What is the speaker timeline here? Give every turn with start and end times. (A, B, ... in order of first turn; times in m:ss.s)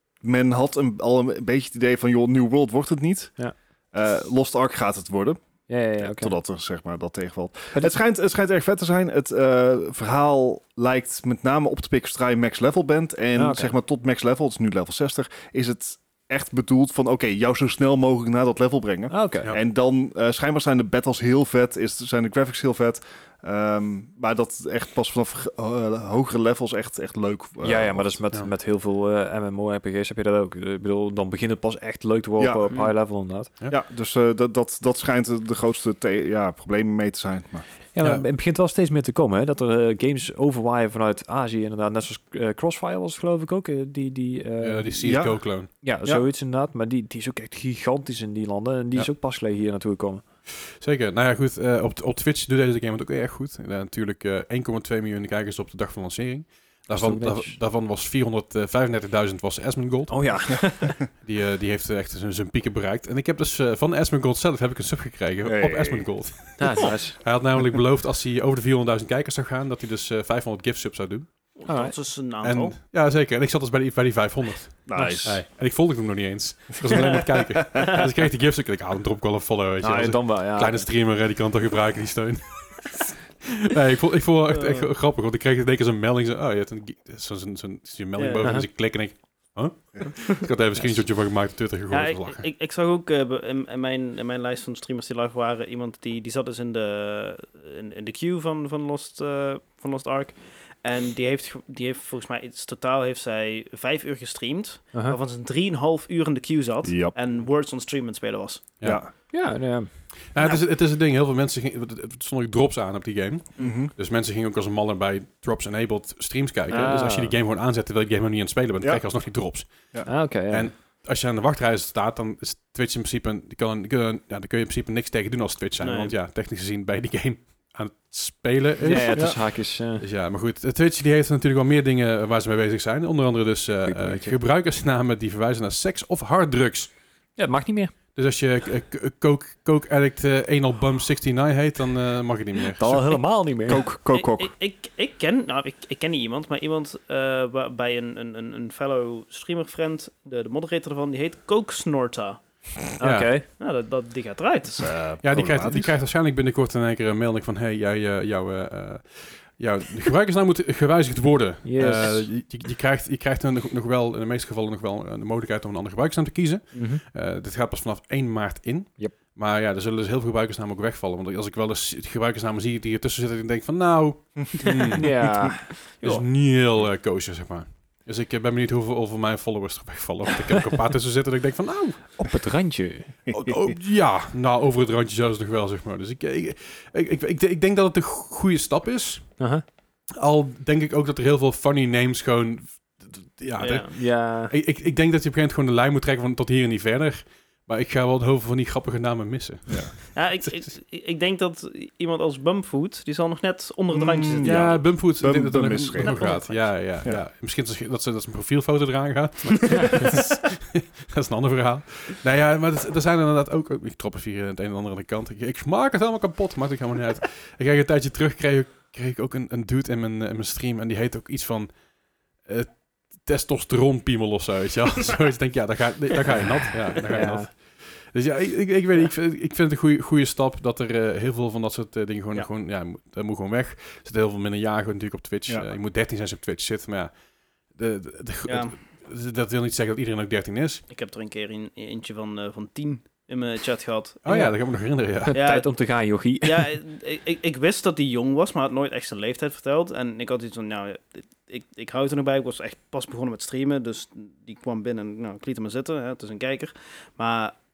0:00.2-0:05.4 A
0:05.7-0:06.4 B
0:06.0-0:28.2 A
0:13.4-0:13.8 B
0:19.1-0:19.5 B
0:27.6-0:33.5 B
0:32.4-0:32.7 A
0:33.7-0:37.6 A
0:37.9-0:45.0 B
0:44.6-0:45.7 C
0:45.0-0:45.4 A
0:45.8-0:50.2 B
0:50.5-1:11.3 C
0:56.9-0:57.6 B
1:00.1-1:01.0 B
1:05.4-1:06.1 A
1:06.6-1:07.2 B
1:11.6-1:12.8 D
1:11.7-1:12.0 B
1:12.4-1:32.4 C
1:14.9-1:15.4 A
1:14.9-1:15.4 B
1:17.8-1:18.0 D
1:19.8-1:20.9 B
1:24.5-1:24.9 D
1:28.2-1:28.6 D
1:28.4-1:28.7 B
1:31.9-1:48.7 D
1:46.8-1:47.2 A
1:48.8-1:49.1 A
1:49.3-1:49.9 B
1:50.2-1:59.9 C
1:53.6-1:53.9 A
1:56.7-1:57.4 B
2:00.0-2:00.7 B
2:00.5-2:16.9 C
2:05.8-2:06.1 D
2:08.8-2:10.0 B
2:09.1-2:09.4 A
2:13.8-2:14.4 B
2:17.4-2:17.9 B
2:18.1-2:23.1 C
2:22.8-2:23.9 B
2:23.7-2:24.5 A
2:24.1-2:32.4 D
2:33.0-2:33.4 B
2:33.0-2:33.3 C
2:33.6-2:34.9 D
2:34.7-2:35.9 A
2:35.2-2:55.1 C
2:41.6-2:42.3 B
2:46.7-2:47.0 B
2:55.0-2:55.8 B
2:55.7-2:56.2 D
2:56.0-3:02.2 C
3:02.2-3:03.2 B
3:03.3-3:03.7 A
3:03.3-3:09.4 C
3:09.4-3:09.6 B
3:10.2-3:20.6 C
3:13.6-3:13.9 D
3:13.9-3:14.5 B
3:19.7-3:19.9 A
3:20.1-3:24.8 D
3:23.9-3:26.3 A
3:24.4-3:41.7 C
3:26.0-3:26.5 D
3:27.0-3:27.2 A
3:29.8-3:30.2 B
3:42.4-3:57.2 C
3:47.1-3:47.5 B
3:57.7-4:00.8 C
3:58.4-3:58.8 D
4:00.9-4:04.2 D
4:04.2-4:05.4 C
4:04.2-4:04.5 B
4:05.2-4:06.7 B
4:05.3-4:05.7 D
4:06.4-4:17.5 D